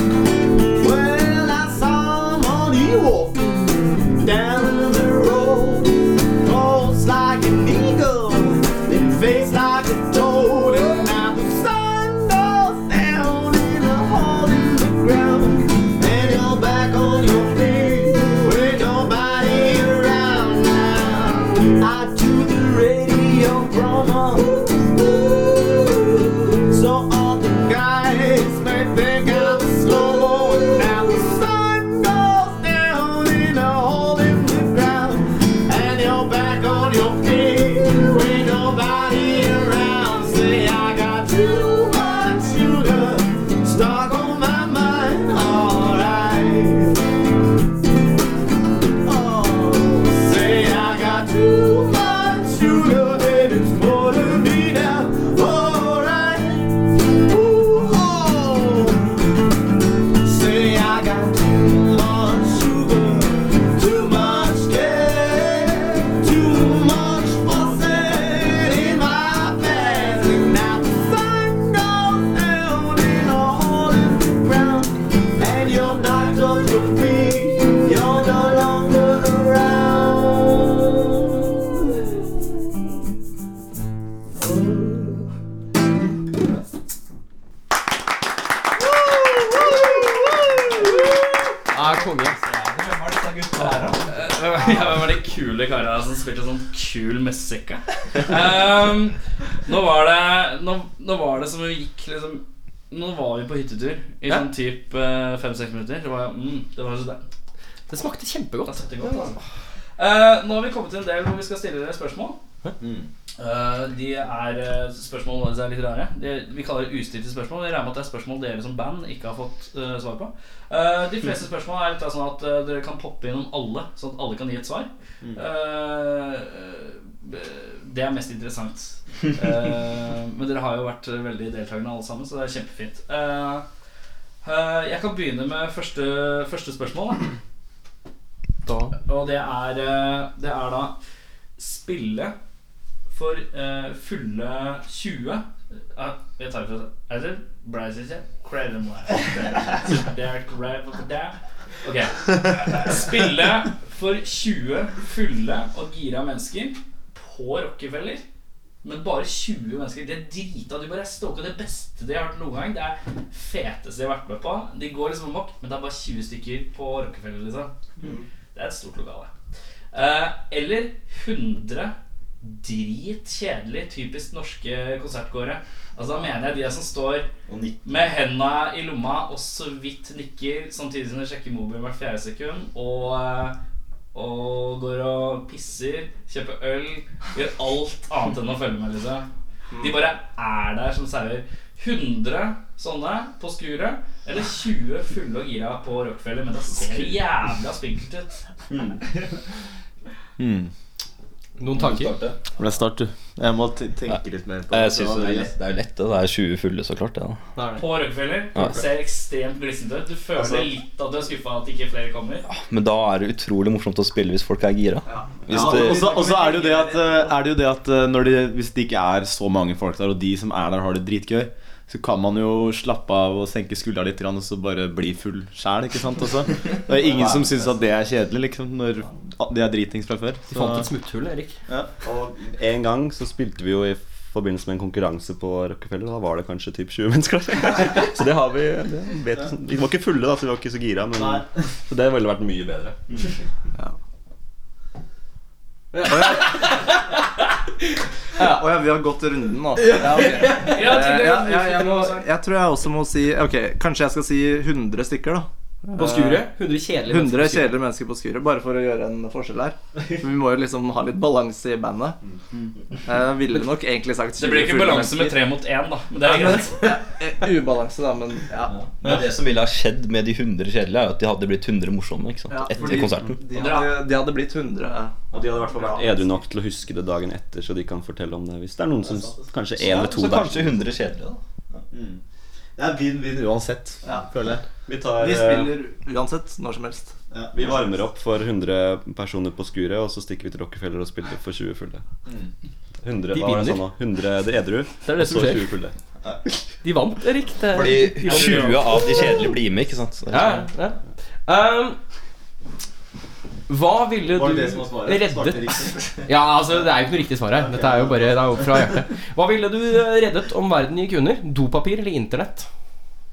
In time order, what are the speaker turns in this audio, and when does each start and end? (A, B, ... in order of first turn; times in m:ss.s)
0:00.8-0:47.0 A
0:49.0-0:59.2 A
1:00.2-1:22.3 A
1:24.4-1:25.3 A
1:28.9-1:30.6 A
1:31.7-1:32.4 B
1:32.5-1:34.0 C
1:33.6-1:47.2 D
1:47.9-1:49.4 B
1:48.6-1:49.4 D
1:50.0-1:52.4 D
1:52.8-1:53.1 E
1:53.4-2:13.6 D
2:14.4-2:17.3 D
2:18.6-2:19.0 B
2:19.0-2:21.0 D
2:21.6-2:22.3 D
2:23.1-2:38.2 D
2:38.8-2:47.7 D
2:48.5-2:49.3 D
2:49.9-2:57.3 D
2:57.5-2:58.1 F
2:57.8-3:03.6 D
3:04.1-3:09.3 D
3:09.8-3:18.4 D
3:18.7-3:19.0 F
3:20.4-3:20.7 E
3:21.6-3:22.2 B
3:21.7-3:22.4 F
3:22.6-3:25.5 E
3:24.7-3:27.4 F
3:27.6-3:27.8 B
3:27.8-3:32.4 D
3:28.5-3:28.8 F
3:32.4-3:36.1 F
3:35.0-3:37.3 C
3:35.5-3:50.9 E
3:50.5-3:51.6 B
3:52.0-4:03.2 G
4:01.2-4:01.5 E
4:05.9-4:06.6 B
4:06.0-4:06.6 C
4:08.4-4:08.6 B
4:08.4-4:16.4 C
4:10.4-4:12.3 D
4:15.9-4:17.7 B
4:17.0-4:22.2 C
4:23.0-4:25.4 C
4:24.4-4:26.9 D
4:26.2-4:29.2 C
4:28.7-4:33.4 F
4:32.5-4:36.3 C
4:33.5-4:34.0 D
4:35.3-4:40.8 G
4:39.0-4:39.4 E
4:39.7-4:41.8 F
4:41.9-4:42.2 E
4:42.8-4:44.6 E
4:44.9-4:45.7 G
4:45.1-4:47.1 C
4:47.3-4:47.7 E
4:47.5-4:52.0 G
4:52.2-4:52.5 E
4:53.0-4:55.9 G
4:53.3-4:53.8 B
4:55.0-4:55.7 B
4:56.8-4:58.8 B
4:57.7-5:00.4 F
4:58.2-4:59.0 D
5:00.3-5:00.6 E
5:00.3-5:02.0 B
5:03.7-5:12.7 B
5:04.3-5:06.3 E
5:07.6-5:08.2 E